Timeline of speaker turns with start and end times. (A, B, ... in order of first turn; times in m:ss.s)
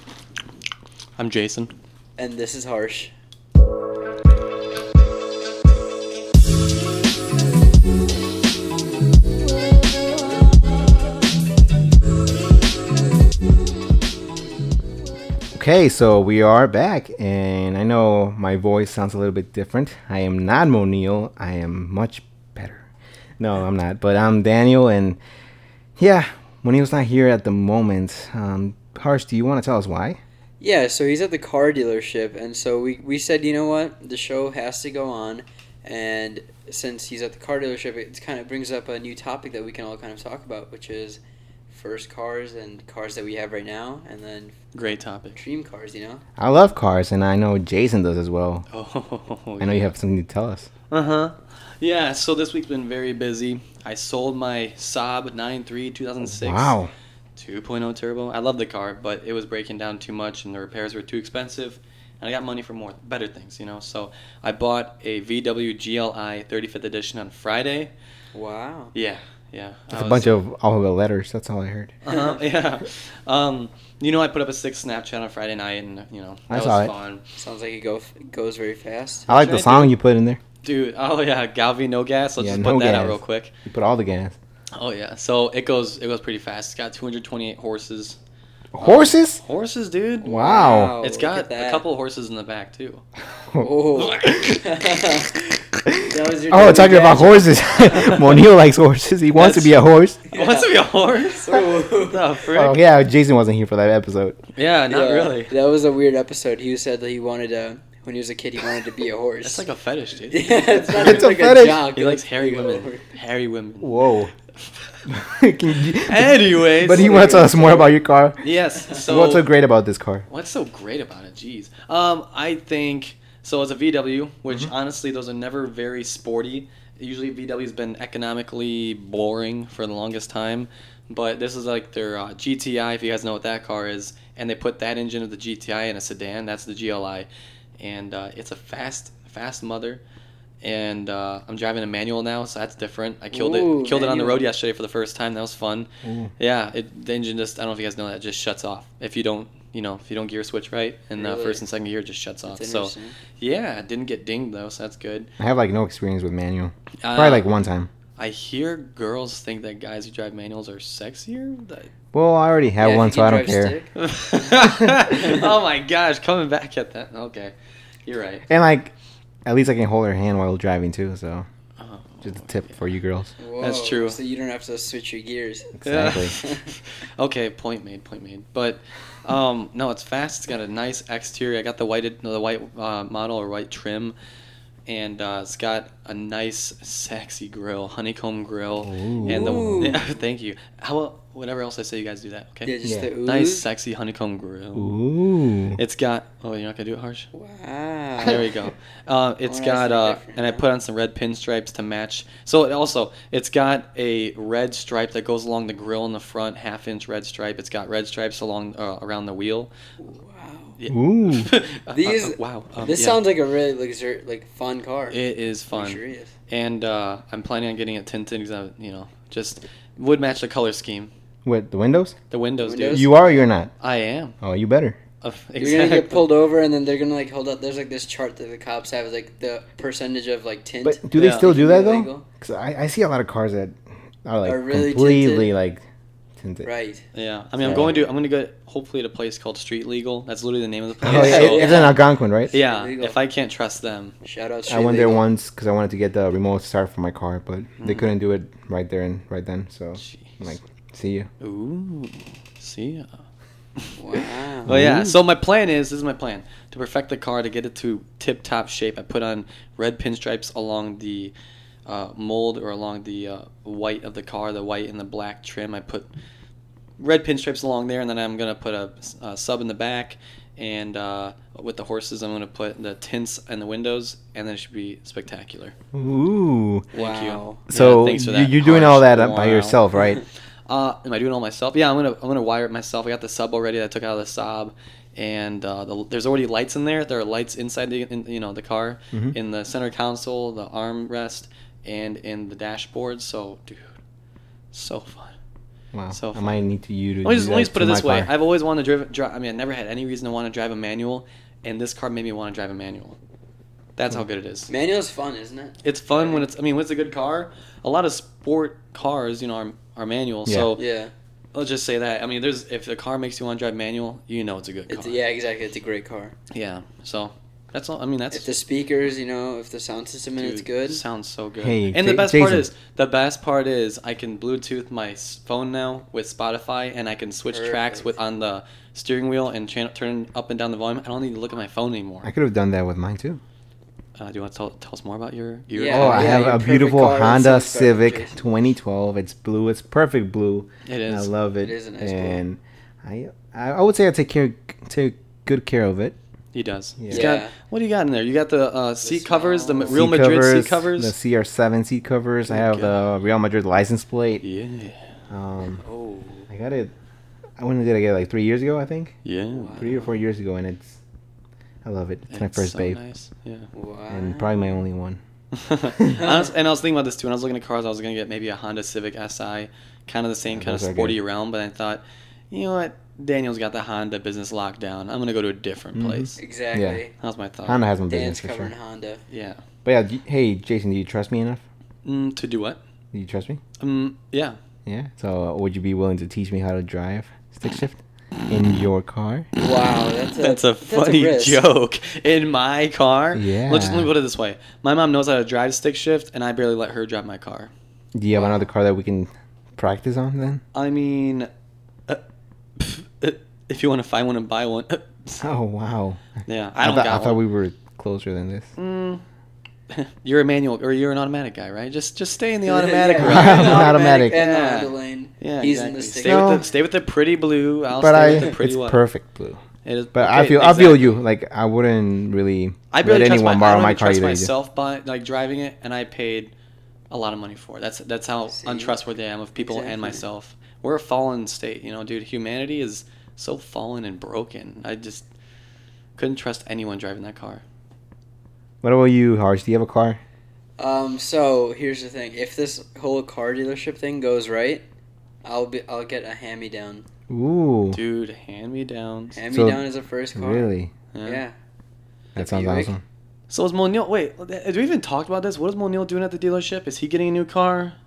0:01.2-0:01.7 A
0:02.2-0:03.1 B
0:15.5-0:22.9 C
0:23.4-0:25.2 C
0:26.0-0:30.2 C
0:30.6-0:44.6 B
0:44.7-0:45.4 A
0:45.4-0:46.2 B
0:46.4-0:48.6 C
0:48.7-0:49.9 A
0:49.6-0:50.7 C
0:50.9-0:56.8 A
0:56.2-0:56.9 C
0:57.4-1:07.9 A
1:08.3-1:08.9 B
1:08.9-1:10.4 A
1:09.9-1:11.9 C
1:12.0-1:17.2 A
1:16.5-1:16.9 C
1:17.4-1:19.3 B
1:19.3-1:19.9 A
1:19.3-1:20.4 C
1:20.6-1:23.5 A
1:22.4-1:24.4 C
1:24.7-1:28.2 A
1:28.7-1:29.4 C
1:28.8-1:33.0 A
1:30.2-1:31.8 B
1:30.2-1:31.0 C
1:33.5-1:34.5 C
1:33.6-1:38.4 B
1:34.0-1:34.6 A
1:35.7-1:40.2 C
1:39.4-1:39.8 A
1:40.3-1:42.4 B
1:40.3-1:42.8 A
1:42.5-1:44.4 C
1:44.6-1:45.5 A
1:44.9-1:49.6 B
1:49.4-1:51.3 A
1:50.3-1:53.0 B
1:51.0-1:51.9 C
1:51.9-1:54.0 A
1:53.8-1:54.3 C
1:55.1-2:00.2 C
1:56.0-1:57.5 A
1:56.8-1:57.9 B
1:58.4-1:59.4 A
2:00.3-2:17.3 A
2:17.8-2:20.0 A
2:20.6-2:35.3 A
2:23.3-2:24.5 B
2:26.0-2:26.3 C
2:31.1-2:31.6 B
2:32.5-2:33.1 B
2:35.4-2:37.9 C
2:37.0-2:37.4 A
2:38.2-2:41.9 A
2:42.1-2:43.7 C
2:42.8-2:45.5 B
2:44.0-2:47.5 A
2:44.6-2:45.0 C
2:48.0-2:48.4 A
2:48.5-2:48.9 C
2:49.4-2:51.4 C
2:51.8-2:52.9 A
2:52.2-2:53.3 C
2:53.4-2:55.8 B
2:53.6-2:54.2 A
2:55.7-2:56.4 C
2:55.8-3:04.1 A
2:56.3-2:56.7 B
3:04.8-3:12.7 A
3:08.8-3:09.9 C
3:09.2-3:10.1 B
3:12.6-3:13.6 B
3:12.8-3:13.1 C
3:13.2-3:14.9 A
3:14.7-3:15.8 C
3:15.8-3:17.3 A
3:17.3-3:18.4 B
3:18.2-3:29.7 A
3:19.4-3:20.6 B
3:30.0-3:30.8 B
3:30.8-3:33.2 A
3:30.9-3:31.5 C
3:31.9-3:35.2 B
3:35.1-3:41.1 A
3:35.7-3:36.3 B
3:41.4-3:42.2 C
3:42.3-3:43.2 A
3:42.6-3:43.2 B
3:42.9-3:43.7 C
3:43.8-3:44.3 A
3:44.4-3:45.0 C
3:45.2-3:46.3 A
3:45.6-3:52.2 B
3:50.8-3:55.8 C
3:51.1-3:51.4 A
3:54.4-3:55.5 B
3:56.4-3:56.7 C
3:56.6-3:57.0 B
3:57.1-4:01.9 A
3:57.6-3:58.1 B
3:57.6-3:57.9 C
4:01.0-4:02.5 C
4:01.0-4:03.2 B
4:02.5-4:04.1 A
4:04.2-4:05.2 B
4:04.7-4:11.3 C
4:07.8-4:08.1 A
4:10.0-4:10.4 A
4:11.4-4:13.1 A
4:13.8-4:21.3 A
4:14.0-4:14.7 B
4:14.7-4:15.2 C
4:21.8-4:26.1 A
4:27.0-4:35.7 A
4:35.9-4:36.9 C
4:36.9-4:39.8 A
4:36.9-4:37.6 B
4:37.7-4:40.2 C
4:40.7-4:53.9 A
4:54.7-4:55.3 A
4:55.9-4:58.3 C
4:56.1-4:56.6 A
4:57.2-5:03.2 A
5:04.0-5:04.7 A
5:04.7-5:06.4 B
5:05.8-5:10.8 A
5:10.4-5:10.7 C
5:10.8-5:11.1 B
5:11.5-5:15.2 A
5:14.9-5:16.3 B
5:16.5-5:18.5 A
5:18.3-5:21.0 B
5:20.4-5:32.3 A
5:21.6-5:22.7 C
5:27.5-5:28.1 B
5:32.2-5:33.4 C
5:34.2-5:36.5 A
5:35.7-5:38.4 B
5:35.9-5:46.2 C
5:40.8-5:41.3 A
5:41.6-5:42.4 B
5:46.5-5:51.1 A
5:47.0-5:47.3 C
5:47.1-5:47.5 B
5:49.0-5:50.0 B
5:49.8-5:54.4 C
5:52.5-5:52.9 A
5:54.4-5:55.0 A
5:55.3-5:55.8 C
5:55.8-5:56.5 B
5:56.5-5:56.9 C
5:57.6-5:59.1 C
5:59.2-5:59.8 A
5:59.5-6:00.1 B
5:59.8-6:01.0 C
6:01.8-6:03.0 C
6:02.3-6:03.7 A
6:03.7-6:04.8 B
6:04.1-6:05.2 C
6:05.5-6:16.4 A
6:06.1-6:06.5 B
6:10.5-6:11.2 C
6:16.0-6:17.0 C
6:16.4-6:17.1 B
6:17.2-6:17.8 A
6:17.6-6:18.7 C
6:18.1-6:19.2 B
6:19.3-6:19.6 A
6:19.8-6:21.6 C
6:22.0-6:22.8 A
6:23.1-6:23.6 C
6:23.8-6:24.6 A
6:24.8-6:29.5 C
6:29.6-6:31.6 B
6:30.4-6:37.7 A
6:33.3-6:34.1 C
6:38.1-6:40.6 C
6:38.3-6:38.6 B
6:40.7-6:41.5 A
6:42.8-6:45.4 A
6:45.4-6:46.2 C
6:46.5-6:47.4 A
6:46.8-6:48.7 C
6:48.8-6:49.2 A
6:49.9-6:59.0 A
6:52.7-6:56.6 B
6:53.2-6:54.4 C
6:56.2-6:56.6 C
6:57.9-6:59.6 C
6:59.8-7:01.2 A
7:00.1-7:04.5 C
7:02.9-7:06.5 A
7:07.1-7:15.2 A
7:08.5-7:09.0 B
7:09.6-7:10.2 B
7:16.2-7:17.6 A
7:18.8-7:20.2 C
7:20.8-7:24.8 B
7:25.4-7:27.0 B
7:27.3-7:28.0 C
7:27.9-7:29.4 A
7:29.3-7:30.7 B
7:29.5-7:30.9 C
7:31.1-7:31.4 A
7:31.2-7:31.6 B
7:32.3-7:32.9 B
7:32.4-7:33.0 C
7:33.5-7:38.0 A